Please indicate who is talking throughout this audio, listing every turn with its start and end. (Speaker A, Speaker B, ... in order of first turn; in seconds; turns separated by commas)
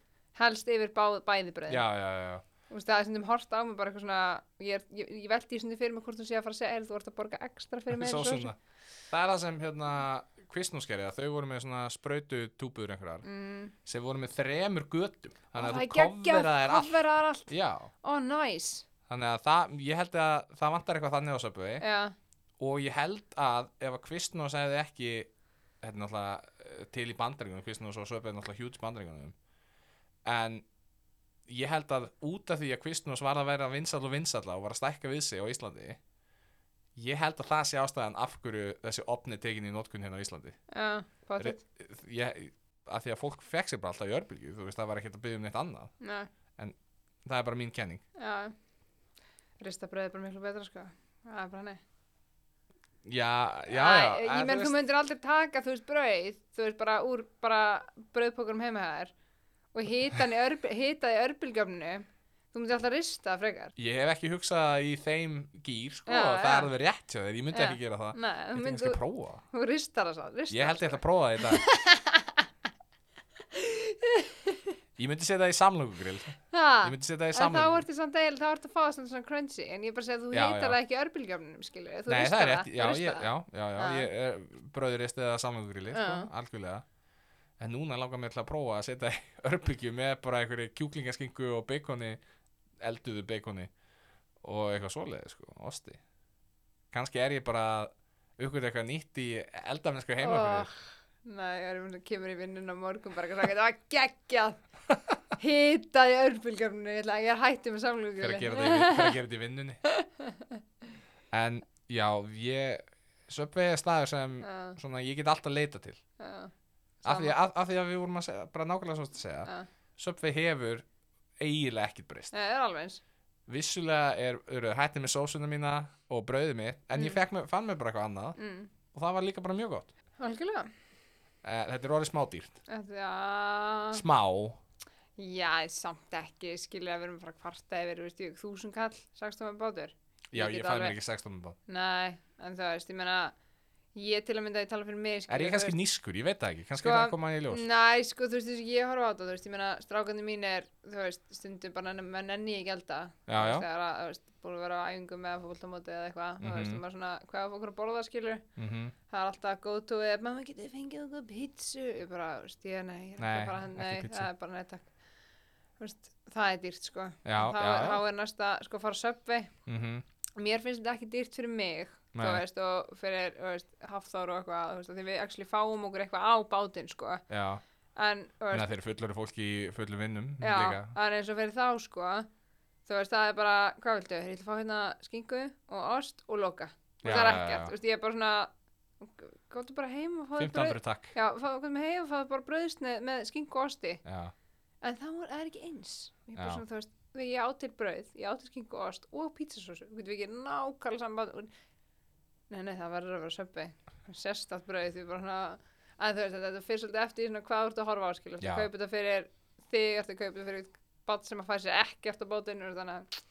Speaker A: 0.3-1.9, Speaker B: 1.7-2.4, Speaker A: 2.7-8.5, Speaker B: 7.9-8.6, Speaker B: 9.1-13.3, Speaker A: 13.2-13.7, Speaker B: 13.8-17.9, Speaker A: 15.5-17.5, Speaker A: 18.0-18.9, Speaker B: 19.1-21.8, Speaker A: 21.8-22.1, Speaker B: 22.6-25.3, Speaker B: 25.8-29.4, Speaker B: 30.2-30.6, Speaker B: 31.5-36.0, Speaker B: 37.0-40.6, Speaker A: 40.7-41.6, Speaker B: 41.4-45.9, Speaker A: 46.0-46.3, Speaker B: 46.6-48.0, Speaker A: 48.2-48.5, Speaker A: 49.6-51.8, Speaker B: 53.0-54.8, Speaker A: 53.7-59.1, Speaker A: 59.7-63.7, Speaker B: 63.8-69.4, Speaker A: 66.1-66.7, Speaker A: 67.5-69.0, Speaker A: 69.5-72.5, Speaker B: 70.5-71.7, Speaker A: 73.5-74.8, Speaker B: 75.0-77.9, Speaker A: 76.5-84.1, Speaker B: 80.3-80.8, Speaker B: 82.1-86.8, Speaker A: 85.9-86.3, Speaker B: 87.6-92.2, Speaker B: 92.8-93.7, Speaker B: 94.4-96.0, Speaker B: 96.9-100.7, Speaker A: 100.2-104.6, Speaker A: 105.4-109.2, Speaker B: 108.2-109.8, Speaker A: 109.8-110.6, Speaker B: 111.3-116.0, Speaker A: 114.4-114.8, Speaker A: 116.2-116.5, Speaker A: 117.0-117.3, Speaker B: 117.0-120.8, Speaker B: 121.4-122.3, Speaker A: 122.3-123.0, Speaker B: 123.5-128.4, Speaker A: 128.4-128.7, Speaker B: 128.9-129.9, Speaker A: 130.2-130.7, Speaker B: 131.4-132.6, Speaker A: 132.7-134.0, Speaker B: 133.9-134.6, Speaker A: 135.2-141.0, Speaker B: 140.3-141.6, Speaker A: 141.7-143.3, Speaker A: 143.9-145.8, Speaker B: 145.3-147.6, Speaker A: 146.8-158.4, Speaker B: 153.3-153.7, Speaker B: 156.4-156.8, Speaker B: 158.6-158.9, Speaker A: 159.1-164.9, Speaker B: 163.2-164.3, Speaker A: 165.8-169.5, Speaker B: 167.2-168.0, Speaker B: 169.7-170.0, Speaker A: 170.4-177.2, Speaker B: 172.1-172.4, Speaker B: 177.3-177.6, Speaker A: 178.0-178.7, Speaker B: 178.5-180.9, Speaker A: 180.4-182.3, Speaker A: 182.9-188.5, Speaker B: 187.0-187.7, Speaker A: 189.0-194.0, Speaker B: 190.4-191.2, Speaker B: 194.1-194.3, Speaker A: 194.8-201.5, Speaker B: 196.4-196.6, Speaker A: 202.5-213.1, Speaker B: 208.4-208.7